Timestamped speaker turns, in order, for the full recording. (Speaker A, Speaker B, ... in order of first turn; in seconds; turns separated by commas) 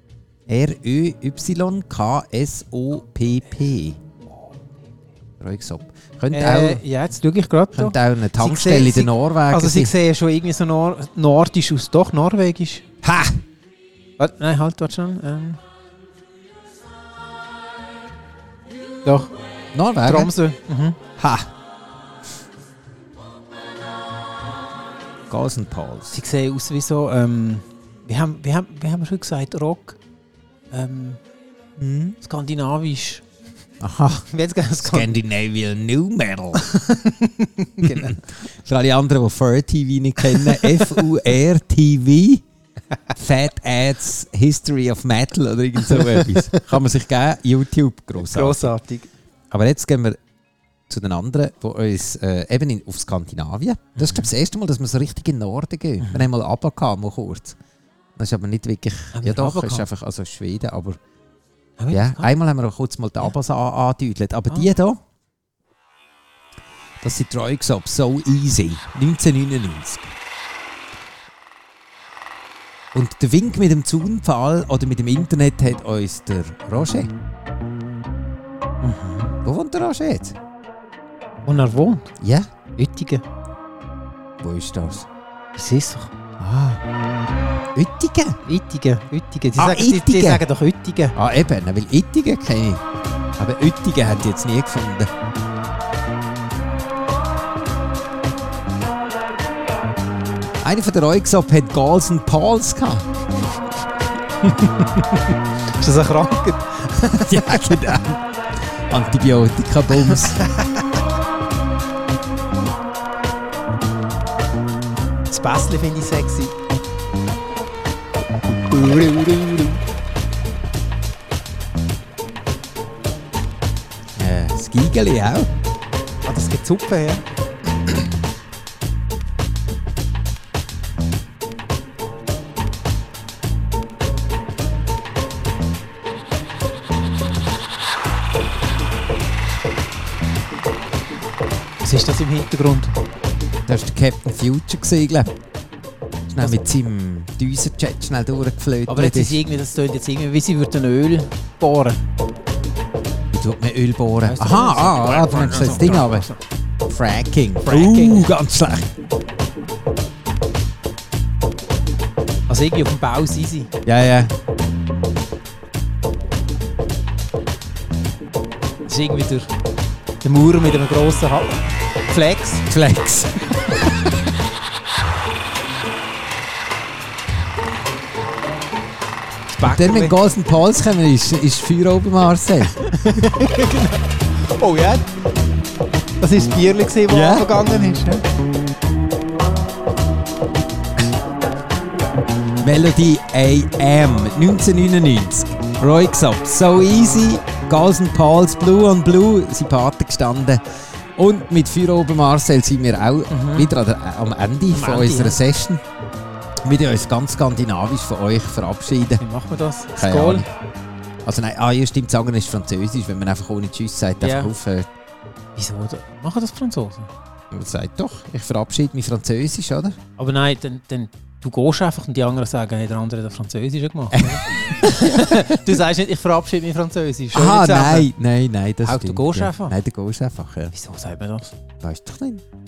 Speaker A: 0.5-4.0, Speaker A: 5.4-6.8, Speaker B: 6.3-12.8, Speaker A: 7.7-9.9, Speaker A: 13.0-13.4, Speaker B: 14.2-15.6, Speaker B: 19.1-19.3, Speaker A: 19.7-20.3, Speaker B: 20.0-21.0, Speaker A: 21.2-21.5, Speaker A: 25.3-26.2, Speaker B: 26.1-30.0, Speaker B: 30.7-31.2, Speaker A: 31.8-32.2, Speaker B: 32.2-33.2, Speaker A: 33.8-36.7, Speaker B: 34.3-35.1, Speaker B: 36.6-38.3, Speaker A: 37.8-42.4, Speaker B: 40.4-40.9, Speaker A: 43.1-48.7, Speaker B: 46.0-46.6, Speaker B: 48.2-49.1, Speaker A: 49.5-50.2, Speaker A: 50.9-57.6, Speaker B: 54.0-54.3, Speaker B: 56.0-56.3, Speaker A: 58.2-61.0, Speaker B: 59.1-59.9, Speaker B: 61.8-62.3, Speaker A: 61.9-65.0, Speaker A: 67.0-70.1, Speaker A: 72.9-77.1, Speaker B: 78.8-79.4, Speaker A: 79.4-80.4, Speaker B: 81.4-82.1, Speaker A: 82.2-82.5, Speaker B: 82.7-83.2, Speaker A: 84.4-85.1, Speaker B: 85.5-86.1, Speaker A: 86.4-86.8, Speaker A: 87.8-88.4, Speaker B: 88.5-91.2, Speaker A: 89.6-90.4, Speaker A: 91.1-92.8, Speaker A: 93.4-95.1, Speaker A: 100.6-103.2, Speaker B: 104.4-107.8, Speaker A: 107.2-108.2, Speaker A: 108.9-110.4, Speaker B: 109.9-110.9, Speaker B: 115.3-116.5, Speaker B: 118.7-119.6, Speaker A: 118.9-119.6, Speaker A: 124.2-125.5, Speaker B: 126.2-127.2, Speaker B: 141.8-143.0, Speaker A: 143.7-145.3, Speaker A: 146.3-149.4, Speaker B: 146.3-146.6, Speaker B: 148.9-152.0, Speaker A: 153.3-156.3, Speaker B: 154.2-156.4, Speaker A: 156.9-158.9, Speaker B: 157.6-158.3, Speaker B: 162.5-163.7, Speaker A: 163.8-164.3, Speaker B: 168.9-169.5, Speaker B: 170.2-172.7, Speaker A: 172.7-173.8, Speaker B: 179.5-180.2, Speaker A: 179.6-182.8, Speaker B: 182.9-185.1, Speaker B: 186.2-188.2, Speaker A: 187.1-187.5, Speaker A: 192.6-200.6, Speaker A: 201.2-205.8, Speaker B: 203.3-203.7, Speaker B: 204.7-205.4, Speaker A: 206.6-209.2, Speaker B: 209.2-210.5, Speaker A: 209.9-210.5, Speaker A: 211.2-214.9, Speaker B: 214.2-214.5, Speaker B: 215.6-217.1, Speaker A: 217.5-220.0, Speaker B: 220.2-228.1, Speaker A: 224.1-225.7, Speaker A: 227.3-230.7, Speaker B: 228.8-229.8, Speaker B: 230.7-231.6, Speaker A: 231.8-232.4